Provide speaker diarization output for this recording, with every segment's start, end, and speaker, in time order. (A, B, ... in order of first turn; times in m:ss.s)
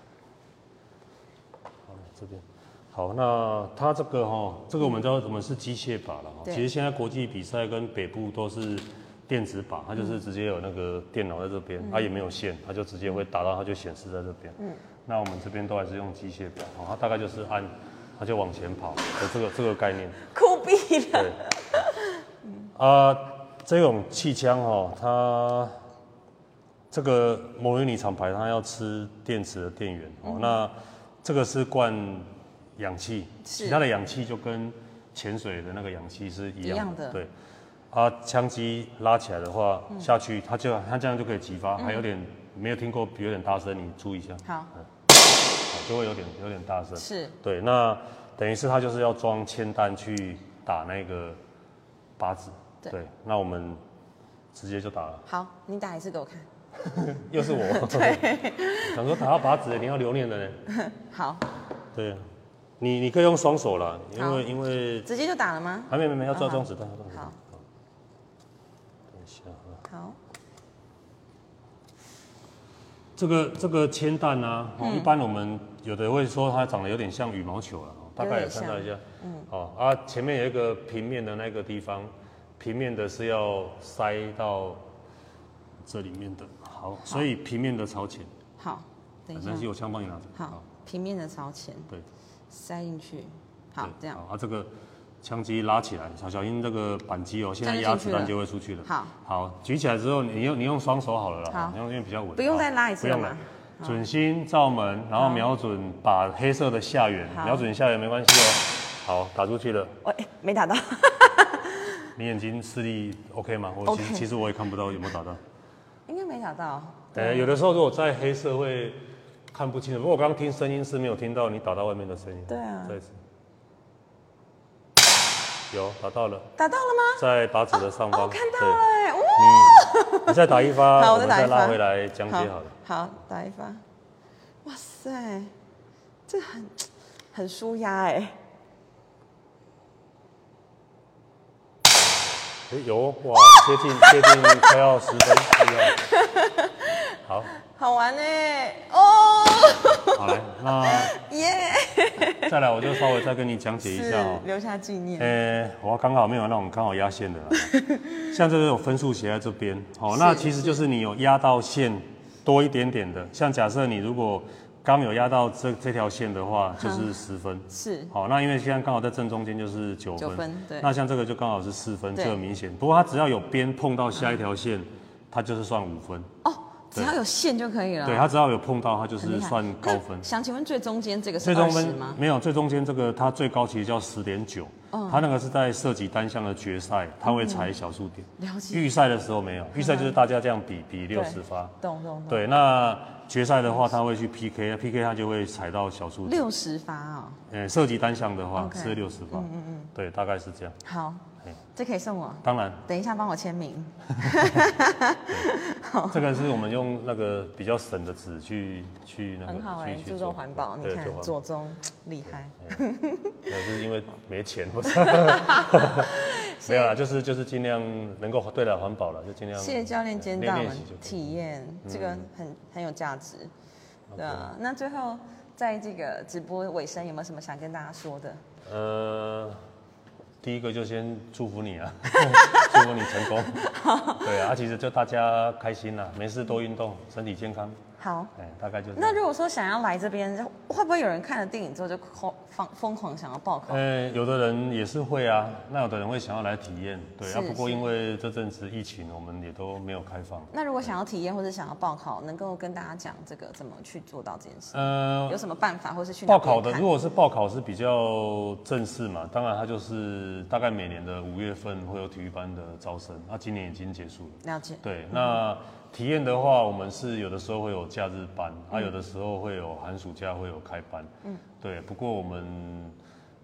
0:01.9-0:20.2 A
0:11.8-0:12.1 B
0:20.3-0:22.7 B
0:21.1-0:21.4 A
0:22.8-0:25.7 A
0:26.9-0:37.3 A
0:30.2-0:30.6 B
0:33.4-0:33.8 B
0:36.6-0:37.2 B
0:37.9-0:44.4 A
0:41.8-0:42.0 B
0:44.4-0:44.7 B
0:45.7-0:51.4 A
0:47.0-0:47.4 B
0:52.2-0:53.8 A
0:54.5-0:55.2 A
0:55.3-0:56.5 B
0:56.8-1:00.6 A
0:57.4-0:59.1 B
1:00.7-1:01.5 B
1:01.9-1:02.3 A
1:02.8-1:05.1 A
1:04.2-1:04.5 B
1:05.1-1:07.4 B
1:05.9-1:07.6 A
1:09.1-1:09.8 A
1:09.9-1:10.2 B
1:13.2-1:24.8 A
1:14.8-1:15.1 B
1:18.2-1:19.5 B
1:25.8-1:28.3 A
1:28.6-1:29.7 B
1:29.3-1:30.6 A
1:30.4-1:31.9 B
1:32.5-1:34.2 B
1:33.8-1:34.7 A
1:35.2-1:50.0 A
1:37.6-1:39.2 B
1:41.5-1:41.8 B
1:42.4-1:44.0 B
1:45.2-1:45.5 B
1:47.3-1:47.7 B
1:50.0-1:52.1 B
1:52.2-1:55.4 A
1:53.8-1:54.3 B
1:56.1-1:57.6 B
1:57.2-1:59.0 A
1:59.5-2:03.1 A
2:02.5-2:03.0 B
2:05.7-2:06.5 A
2:06.6-2:07.2 B
2:07.2-2:12.7 A
2:08.1-2:13.8 B
2:14.6-2:15.5 B
2:16.3-2:18.4 B
2:22.7-2:26.0 A
2:24.1-2:24.6 B
2:25.9-2:33.1 B
2:27.2-2:27.5 A
2:30.1-2:31.2 A
2:32.2-2:34.5 A
2:33.8-2:35.4 B
2:35.2-2:56.3 A
2:37.7-2:38.3 B
2:40.1-2:40.8 B
2:46.8-2:47.1 B
2:47.7-2:48.1 B
2:50.2-2:50.9 B
2:56.4-2:58.3 B
2:58.0-3:00.3 A
2:59.2-3:02.2 B
3:01.4-3:11.8 A
3:04.9-3:05.2 B
3:07.2-3:07.7 B
3:08.4-3:08.9 B
3:09.8-3:10.2 B
3:11.1-3:12.4 B
3:12.3-3:16.5 A
3:16.3-3:17.4 B
3:17.5-3:20.8 A
3:18.5-3:19.9 B
3:20.8-3:26.4 B
3:22.4-3:22.8 A
3:24.2-3:24.7 A
3:25.3-3:25.5 A
3:26.1-3:31.4 A
3:29.4-3:33.5 B
3:33.5-3:42.3 A
3:35.0-3:37.0 B
3:39.6-3:43.5 B
3:44.1-3:44.5 A
3:44.2-3:48.4 B
3:48.6-3:49.6 A
3:50.4-3:57.8 A
3:52.1-3:54.5 B
3:58.0-3:58.3 B
3:58.4-3:59.2 A
3:59.0-4:03.8 B
4:03.7-4:10.5 A
4:07.2-4:07.9 B
4:10.5-4:16.9 B
4:14.7-4:15.4 A
4:16.3-4:33.0 A
4:24.4-4:25.4 B